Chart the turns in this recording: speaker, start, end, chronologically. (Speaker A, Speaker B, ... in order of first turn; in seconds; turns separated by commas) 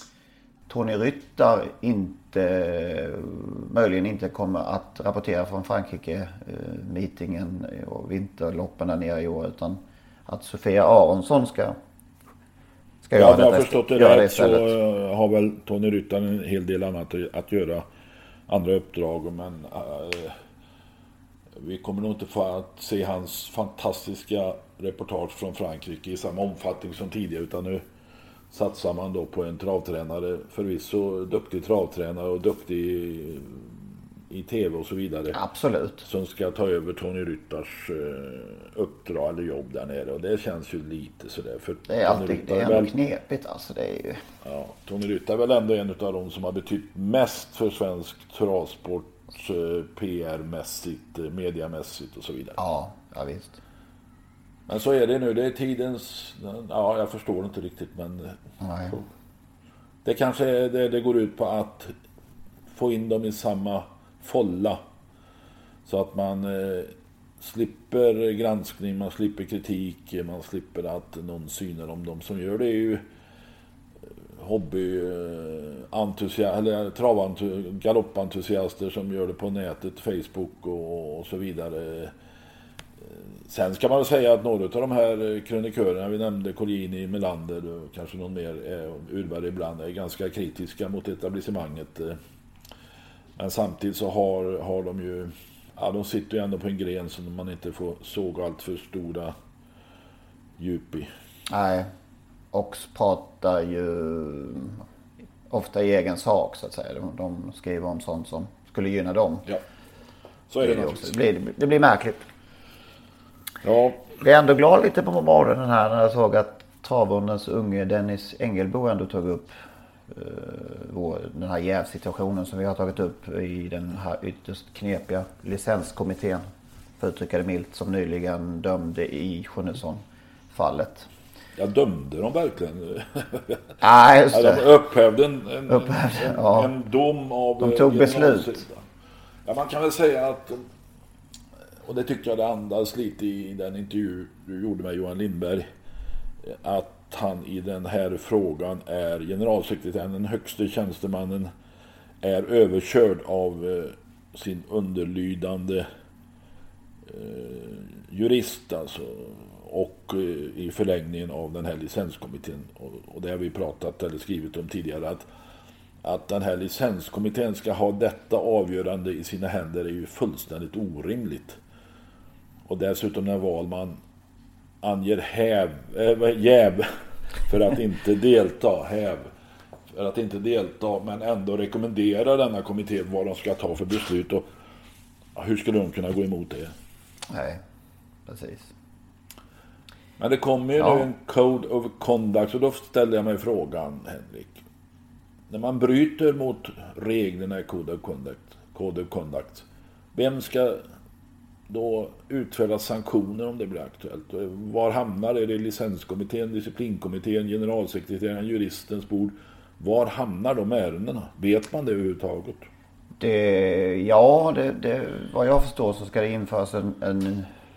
Speaker A: 0.7-11.8, Speaker A: 13.0-14.7, Speaker B: 13.1-17.9, Speaker B: 18.5-20.4, Speaker B: 21.6-27.8, Speaker B: 28.5-35.4, Speaker A: 35.3-36.0, Speaker B: 36.0-42.9, Speaker A: 41.9-44.2, Speaker B: 44.4-52.6, Speaker A: 52.6-53.6, Speaker B: 54.7-58.4, Speaker A: 58.6-59.0, Speaker B: 60.0-61.9, Speaker B: 62.7-64.8, Speaker B: 65.8-73.0, Speaker B: 74.4-82.1, Speaker B: 83.1-92.2, Speaker B: 93.4-99.3, Speaker B: 100.6-101.1, Speaker A: 101.5-101.9, Speaker A: 102.5-104.8, Speaker A: 105.5-109.5, Speaker B: 110.5-111.2, Speaker A: 110.6-112.2, Speaker B: 113.6-114.1, Speaker A: 114.2-119.5, Speaker A: 120.1-126.4, Speaker A: 127.0-131.1, Speaker B: 131.6-133.7, Speaker A: 133.8-134.7, Speaker B: 134.3-138.8, Speaker A: 135.7-136.7, Speaker A: 137.6-138.6, Speaker B: 139.4-140.7, Speaker B: 141.8-145.7, Speaker B: 146.4-151.5, Speaker B: 152.2-155.9, Speaker B: 157.1-165.2, Speaker B: 166.0-171.6, Speaker B: 172.7-174.0, Speaker B: 174.8-176.9, Speaker B: 177.4-179.3, Speaker B: 179.9-184.4, Speaker B: 185.3-186.7, Speaker A: 187.3-187.6, Speaker A: 188.2-188.7, Speaker B: 190.2-194.6, Speaker A: 190.8-191.0, Speaker B: 195.5-200.8, Speaker B: 201.7-212.7, Speaker A: 213.2-217.5